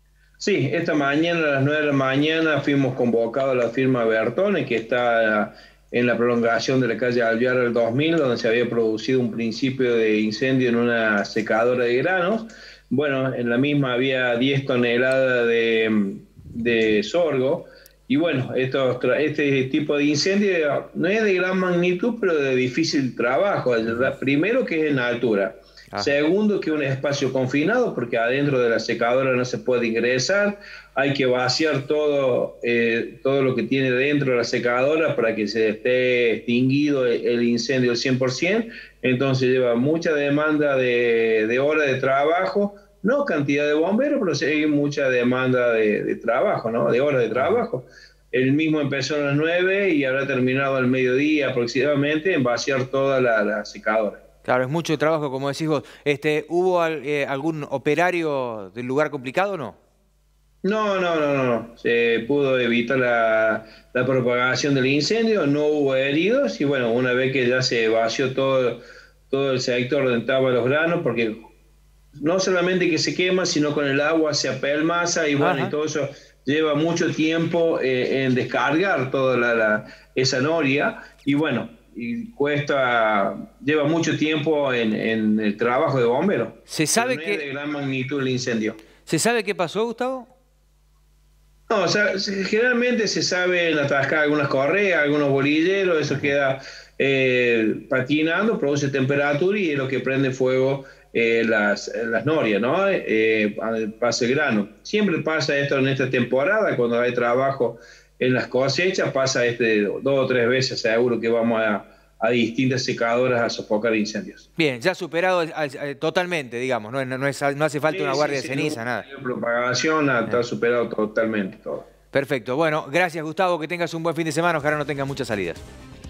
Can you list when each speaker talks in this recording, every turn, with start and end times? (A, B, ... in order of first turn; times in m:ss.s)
0:00.4-0:54.2 A
0:47.3-0:47.6 B
0:54.4-0:59.8 B
1:00.6-1:11.5 A
1:12.2-1:28.8 A
1:15.4-1:15.7 B
1:26.7-1:27.4 B
1:29.0-1:30.3 B
1:31.7-1:54.4 A
1:54.6-1:59.0 B
1:57.9-2:01.9 A
2:02.1-2:05.6 B